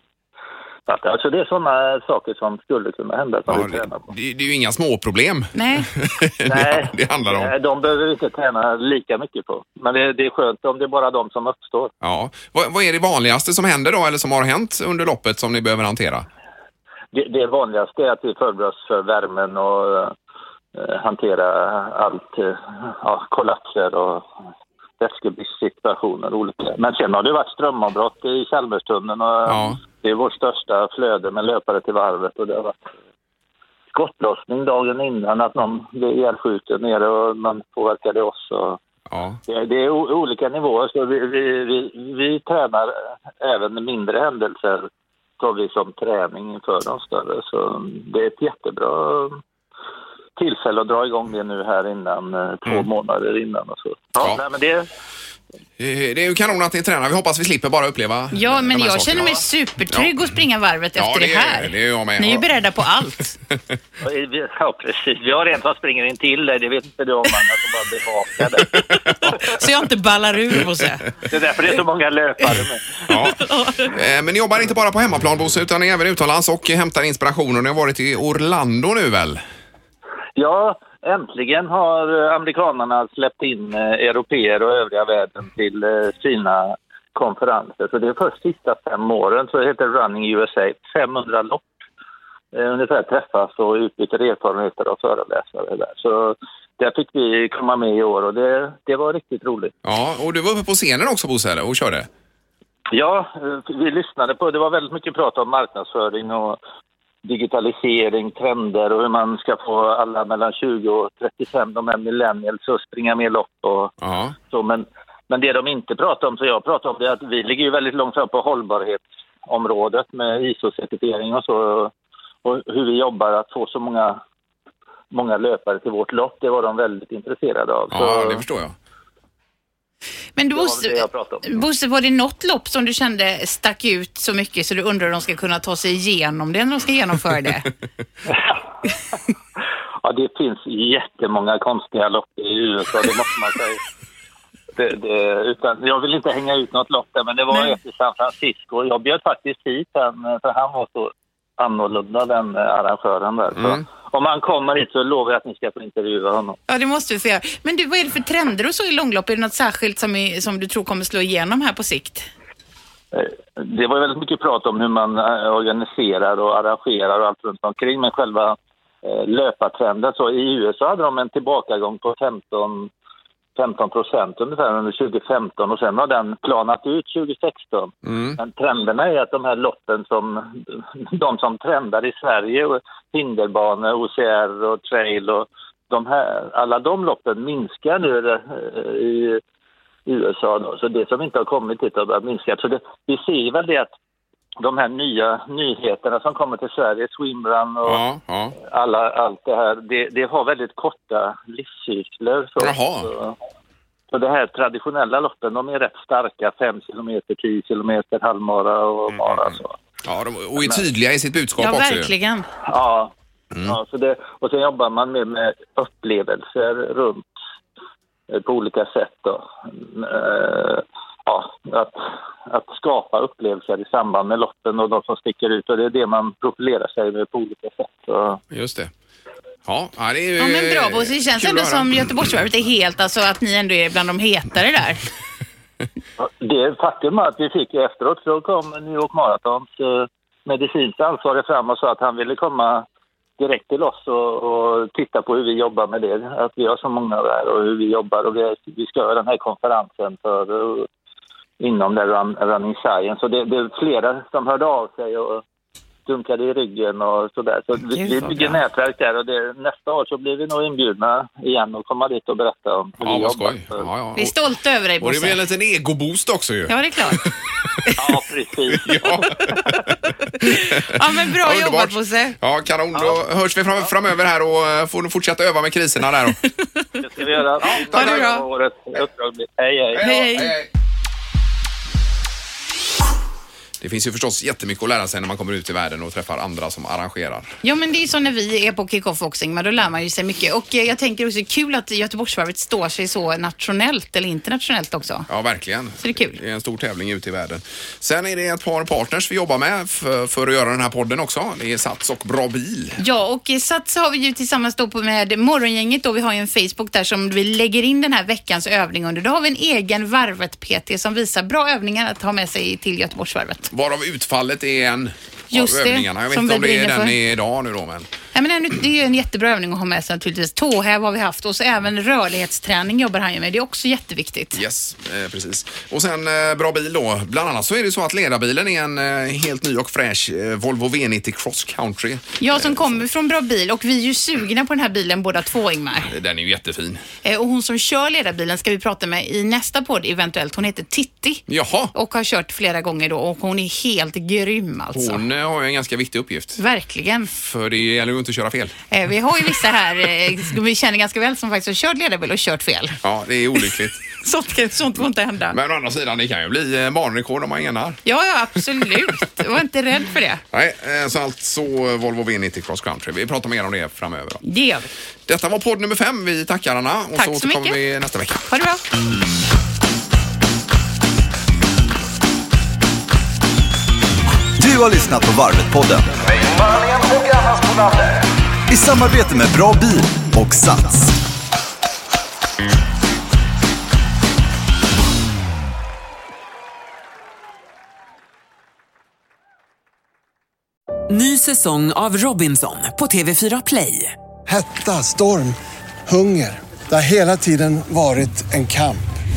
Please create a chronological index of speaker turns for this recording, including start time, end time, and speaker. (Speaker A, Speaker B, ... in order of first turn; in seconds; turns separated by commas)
Speaker A: 0.9-4.1, Speaker B: 3.5-7.5, Speaker C: 5.5-5.9, Speaker A: 6.5-11.9, Speaker B: 12.0-16.3, Speaker A: 17.1-20.1, Speaker A: 20.8-24.3, Speaker A: 25.0-32.8, Speaker B: 29.5-29.8, Speaker A: 33.9-38.8, Speaker B: 39.1-39.4, Speaker A: 39.5-44.9, Speaker A: 45.4-49.4, Speaker A: 50.4-54.9, Speaker B: 55.8-59.4, Speaker C: 58.3-63.4, Speaker B: 61.0-62.5, Speaker A: 64.0-69.4, Speaker B: 68.7-69.3, Speaker C: 69.2-71.1, Speaker A: 71.3-73.0, Speaker B: 73.1-79.4, Speaker C: 73.1-73.9, Speaker A: 80.4-91.7, Speaker A: 92.5-99.8, Speaker B: 99.8-102.1, Speaker A: 102.9-106.6, Speaker A: 107.2-113.9, Speaker B: 114.0-114.3, Speaker A: 114.5-121.9, Speaker A: 122.4-124.2, Speaker A: 125.1-128.4, Speaker B: 127.9-128.8, Speaker C: 130.4-137.7, Speaker A: 130.5-131.6, Speaker A: 138.3-138.6, Speaker A: 140.0-143.8, Speaker A: 144.8-156.6, Speaker C: 147.5-147.8, Speaker B: 153.6-153.8, Speaker C: 156.7-162.3, Speaker A: 163.1-172.9, Speaker A: 173.6-189.4, Speaker B: 178.1-178.4, Speaker A: 190.1-193.9, Speaker A: 194.6-198.0, Speaker B: 197.8-198.6, Speaker A: 198.6-203.4, Speaker B: 202.6-203.1, Speaker A: 204.1-209.8, Speaker B: 209.1-209.4, Speaker B: 210.1-212.1, Speaker A: 210.6-210.8, Speaker C: 211.6-212.5, Speaker A: 212.6-217.3, Speaker A: 218.3-228.4, Speaker B: 228.5-228.9, Speaker B: 229.7-232.1, Speaker C: 230.4-235.1, Speaker A: 236.2-242.9, Speaker A: 243.4-250.9, Speaker A: 251.6-255.4, Speaker A: 256.1-263.9, Speaker C: 257.9-258.6, Speaker B: 263.0-264.3, Speaker C: 264.2-265.4, Speaker B: 265.0-267.3, Speaker C: 266.7-267.3, Speaker A: 268.0-269.8, Speaker B: 268.7-276.4, Speaker C: 270.4-272.4, Speaker A: 272.9-273.2, Speaker A: 277.0-280.2, Speaker B: 277.6-278.3, Speaker C: 277.8-278.4, Speaker B: 279.9-280.7, Speaker C: 280.0-280.5, Speaker B: 283.8-287.5, Speaker C: 287.6-295.3, Speaker B: 295.3-303.0, Speaker C: 296.0-296.4, Speaker C: 303.0-313.7, Speaker B: 313.7-318.1, Speaker C: 315.5-317.2, Speaker C: 318.3-324.6, Speaker B: 324.6-333.0, Speaker C: 332.4-336.1, Speaker B: 336.1-337.0, Speaker C: 337.2-345.2, Speaker B: 341.5-341.9, Speaker B: 344.9-346.6, Speaker C: 346.6-347.3, Speaker B: 347.4-348.8, Speaker C: 348.9-353.0, Speaker B: 353.0-354.0, Speaker C: 354.1-355.6, Speaker B: 355.5-358.0, Speaker C: 358.1-360.4, Speaker B: 360.5-364.4, Speaker C: 364.4-364.9, Speaker B: 365.3-368.5, Speaker C: 367.1-367.8, Speaker C: 368.5-368.8, Speaker D: 374.6-378.1, Speaker D: 378.7-381.2, Speaker E: 391.1-394.1, Speaker F: 394.5-399.1